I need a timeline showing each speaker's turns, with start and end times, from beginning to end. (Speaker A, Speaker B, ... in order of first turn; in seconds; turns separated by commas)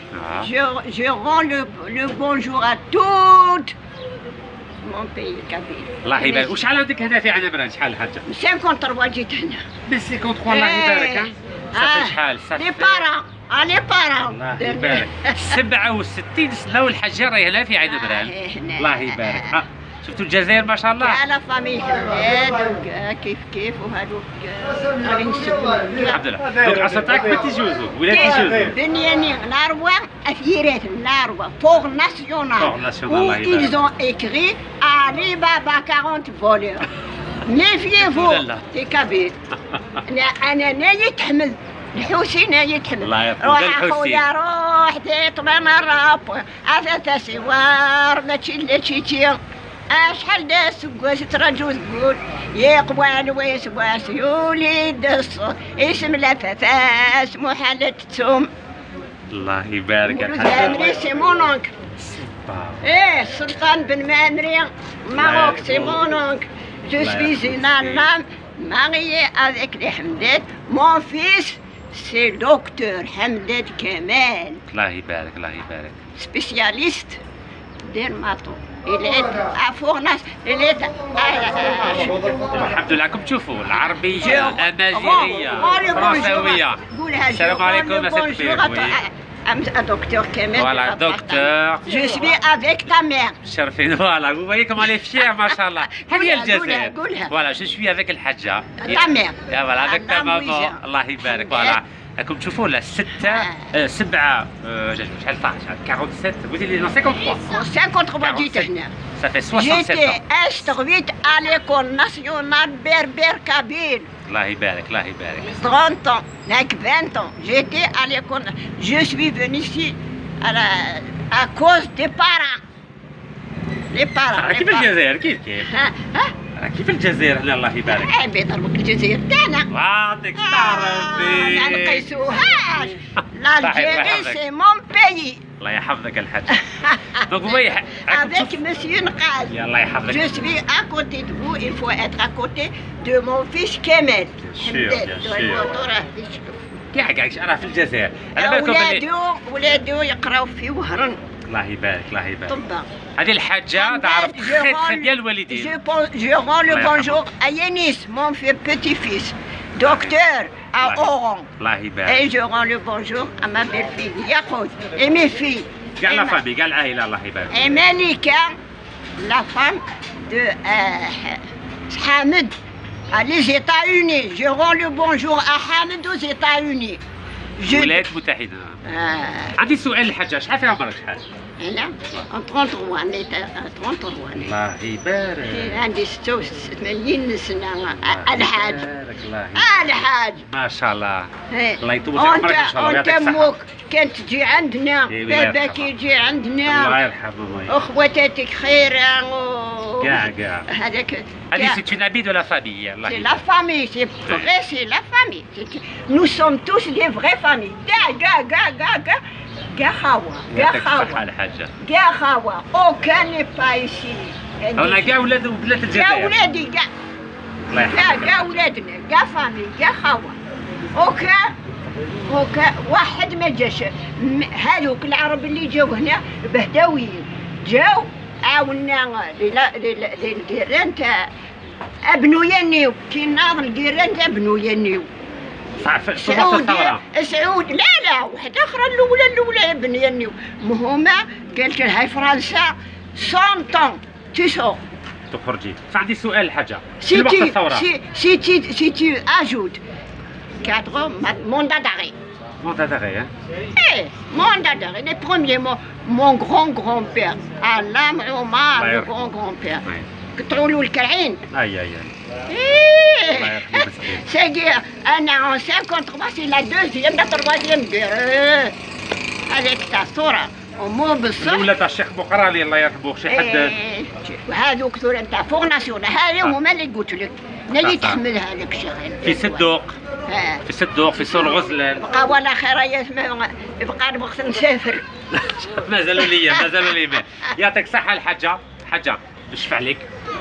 Speaker A: 0.1-0.5, Speaker B: 0.4-3.7, Speaker B: 4.8-6.6, Speaker A: 6.0-8.2, Speaker B: 8.2-9.7, Speaker A: 9.9-13.1, Speaker B: 10.5-15.6, Speaker A: 14.2-21.2, Speaker B: 17.9-19.6, Speaker B: 21.0-26.2, Speaker A: 26.0-28.8, Speaker B: 28.1-36.9, Speaker A: 32.6-33.8, Speaker B: 37.4-39.4, Speaker A: 38.0-38.6, Speaker B: 40.0-49.4, Speaker A: 43.0-44.2, Speaker B: 49.9-58.5, Speaker A: 59.3-61.0, Speaker B: 60.0-61.7, Speaker A: 62.0-62.9, Speaker B: 62.8-74.6, Speaker A: 65.1-66.1, Speaker A: 67.0-68.1, Speaker A: 74.7-76.0, Speaker B: 76.2-77.2, Speaker B: 77.8-82.3, Speaker A: 82.5-89.0, Speaker B: 84.1-93.4, Speaker A: 90.5-92.0, Speaker A: 93.4-107.6, Speaker B: 94.9-97.3, Speaker B: 98.8-101.8, Speaker B: 103.2-103.7, Speaker B: 107.4-108.9, Speaker A: 108.2-110.2, Speaker B: 109.5-114.1, Speaker A: 114.3-115.6, Speaker B: 115.5-122.6, Speaker B: 123.9-124.9, Speaker A: 124.3-125.7, Speaker B: 125.7-126.3, Speaker A: 126.5-128.2, Speaker B: 127.9-129.7, Speaker A: 129.7-132.2, Speaker B: 130.3-135.4, Speaker A: 133.6-134.4, Speaker A: 135.6-138.6, Speaker B: 136.5-146.7, Speaker A: 139.5-140.5, Speaker A: 144.5-145.7, Speaker A: 146.9-149.0, Speaker B: 148.3-151.2, Speaker A: 151.5-152.6, Speaker B: 152.5-152.9, Speaker A: 153.2-155.8, Speaker B: 153.7-161.5, Speaker A: 156.7-157.2, Speaker A: 159.8-160.2, Speaker A: 160.8-162.3, Speaker B: 162.1-166.4, Speaker A: 166.0-167.7, Speaker B: 167.5-168.5, Speaker B: 169.2-172.5, Speaker B: 173.1-177.0, Speaker B: 177.6-178.1, Speaker A: 177.7-178.8, Speaker B: 178.8-179.6, Speaker A: 179.6-181.2, Speaker B: 181.6-184.5, Speaker A: 184.4-185.8, Speaker B: 185.4-188.9, Speaker A: 187.9-191.3, Speaker B: 189.5-190.5, Speaker B: 191.5-197.0, Speaker A: 191.8-193.5, Speaker A: 195.1-195.9, Speaker A: 196.7-197.8, Speaker B: 197.7-201.8, Speaker A: 200.0-200.7, Speaker A: 201.5-203.4, Speaker B: 203.0-209.2, Speaker B: 209.7-211.2, Speaker A: 210.5-211.7, Speaker B: 211.8-215.2, Speaker A: 214.8-216.4, Speaker B: 215.9-216.9, Speaker A: 217.7-218.6, Speaker B: 217.8-220.3, Speaker B: 220.9-221.5, Speaker B: 222.3-231.3, Speaker B: 232.1-235.1, Speaker A: 235.8-237.0, Speaker B: 236.2-244.8, Speaker A: 245.3-247.9, Speaker B: 247.0-249.8, Speaker B: 250.6-252.1, Speaker A: 252.6-253.3, Speaker B: 253.7-259.8, Speaker A: 258.7-259.3, Speaker B: 260.4-261.4, Speaker A: 261.5-262.1, Speaker B: 262.5-268.7, Speaker A: 263.3-264.2, Speaker B: 269.5-271.7, Speaker A: 271.4-273.7, Speaker B: 273.3-279.6, Speaker A: 277.8-278.2, Speaker A: 279.2-279.9, Speaker B: 280.3-280.6, Speaker A: 280.6-282.1, Speaker B: 282.0-285.0, Speaker A: 285.3-290.1, Speaker B: 286.2-287.0